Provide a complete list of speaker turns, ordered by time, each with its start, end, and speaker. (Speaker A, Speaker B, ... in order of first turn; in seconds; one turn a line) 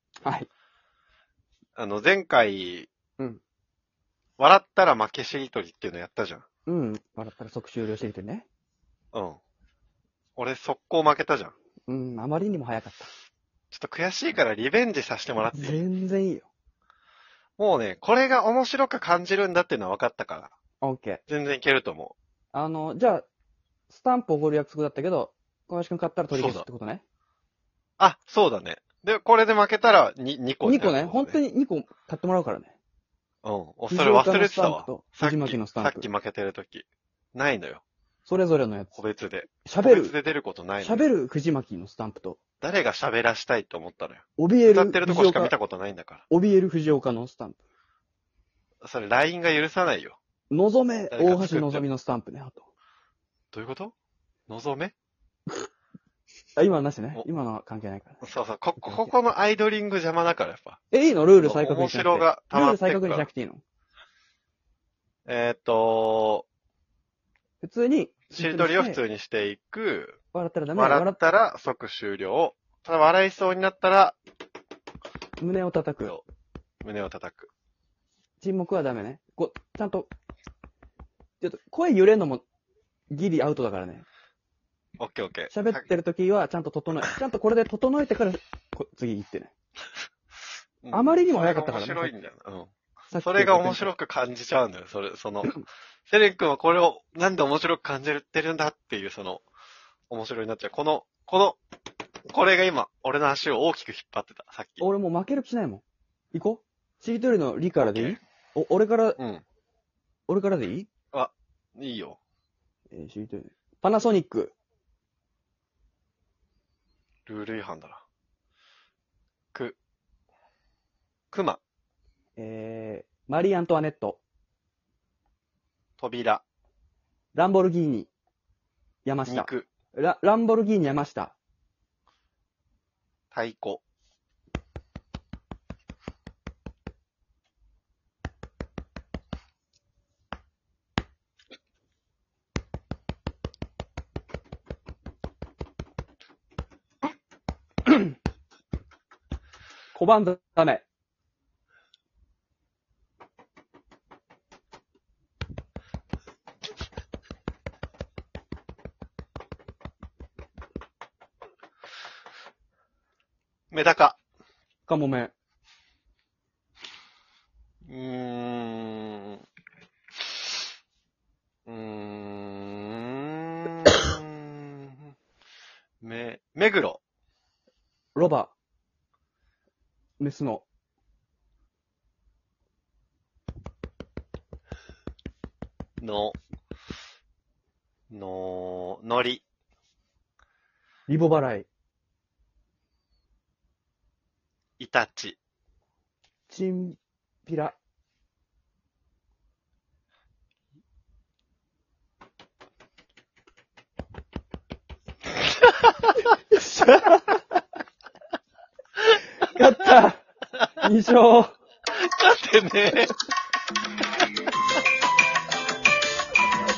Speaker A: 0.2-0.5
Speaker B: 1.8-2.9
Speaker B: 4.4-6.4
Speaker A: 6.7-8.5
Speaker B: 9.1-9.4
Speaker B: 10.3-11.5
Speaker A: 11.9-13.1
Speaker B: 13.7-15.8
Speaker A: 15.5-16.5
Speaker B: 17.6-20.5
Speaker A: 20.8-21.2
Speaker B: 21.3-22.1
Speaker A: 22.5-23.3
Speaker A: 23.9-27.0
Speaker B: 26.3-26.7
Speaker B: 28.0-31.4
Speaker A: 30.6-32.8
Speaker B: 33.4-37.8
Speaker A: 33.9-36.1
Speaker A: 38.2-39.0
Speaker B: 38.9-41.1
Speaker A: 39.6-40.1
Speaker A: 40.8-42.4
Speaker B: 42.6-46.2
Speaker A: 44.4-45.5
Speaker A: 46.3-47.6
Speaker B: 48.8-50.2
Speaker A: 50.5-52.7
Speaker B: 51.1-51.8
Speaker B: 53.5-53.9
Speaker B: 54.5-54.9
Speaker A: 56.6-58.3
Speaker B: 58.2-60.8
Speaker A: 58.8-59.1
Speaker A: 60.9-63.6
Speaker B: 61.4-63.3
Speaker B: 65.2-66.5
Speaker A: 67.6-69.0
Speaker B: 68.3-70.2
Speaker A: 70.3-71.2
Speaker B: 70.7-74.2
Speaker A: 75.4-76.2
Speaker B: 76.8-77.5
Speaker A: 78.4-80.1
Speaker A: 81.4-82.4
Speaker A: 83.1-84.0
Speaker B: 85.0-85.8
Speaker A: 85.5-89.5
Speaker B: 90.8-99.4
Speaker A: 90.9-92.2
Speaker A: 93.1-93.9
Speaker B: 100.1-101.6
Speaker B: 102.3-104.9
Speaker A: 104.8-109.2
Speaker B: 107.8-108.2
Speaker B: 109.2-109.4
Speaker A: 110.3-110.9
Speaker B: 111.1-112.2
Speaker A: 112.9-114.5
Speaker B: 117.3-118.0
Speaker B: 121.3-121.6
Speaker A: 122.4-124.2
Speaker B: 126.0-126.4
Speaker A: 127.3-128.1
Speaker A: 129.0-131.3
Speaker B: 129.3-129.7
Speaker B: 133.3-133.8
Speaker A: 149.9-150.8
Speaker B: 163.7-164.2
Speaker A: 164.9-165.3
Speaker B: 167.8-169.4
Speaker B: 171.7-175.1
Speaker B: 176.0-177.0
Speaker A: 178.1-178.5
Speaker A: 180.2-180.6
Speaker B: 186.0-186.4
Speaker B: 188.1-189.4
Speaker A: 191.1-191.7
Speaker B: 194.8-195.4
Speaker A: 196.5-197.8
Speaker A: 206.3-207.4
Speaker A: 209.4-210.2
Speaker A: 210.8-211.6
Speaker B: 211.9-213.1